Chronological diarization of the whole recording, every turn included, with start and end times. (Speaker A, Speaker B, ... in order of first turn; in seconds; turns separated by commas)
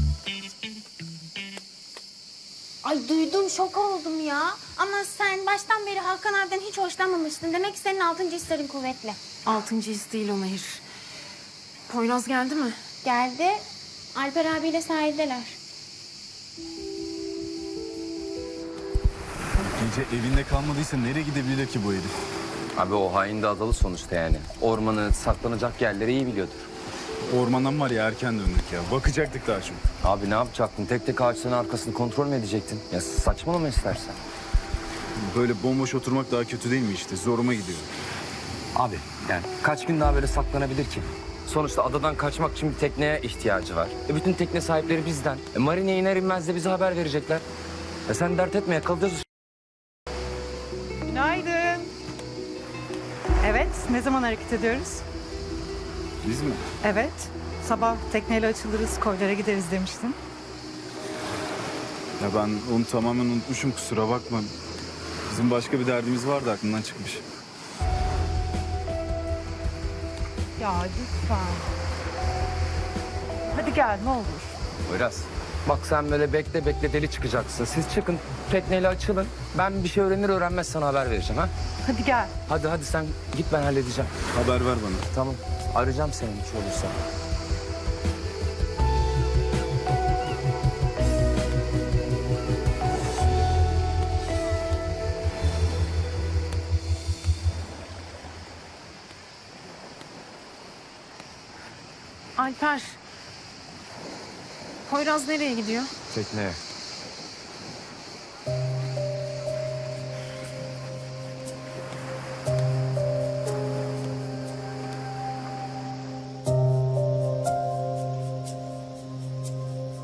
Speaker A: 2.8-9.2, Speaker B: 9.4-10.8, Speaker B: 11.9-12.8, Speaker A: 13.0-15.6, Speaker C: 19.8-22.1, Speaker D: 22.8-26.7, Speaker C: 27.3-29.8, Speaker D: 30.0-34.2, Speaker C: 35.2-37.9, Speaker D: 38.7-47.4, Speaker D: 48.1-49.2, Speaker E: 51.1-51.9, Speaker E: 53.4-55.0, Speaker C: 56.2-56.6, Speaker E: 56.8-60.2, Speaker C: 62.2-64.5, Speaker C: 65.3-67.2, Speaker E: 70.6-71.6, Speaker E: 73.5-74.5, Speaker D: 74.9-81.5, Speaker E: 81.8-82.3, Speaker D: 82.5-84.1, Speaker C: 84.3-85.1, Speaker D: 85.1-87.0, Speaker B: 102.4-103.0, Speaker B: 104.9-105.9, Speaker D: 106.1-106.6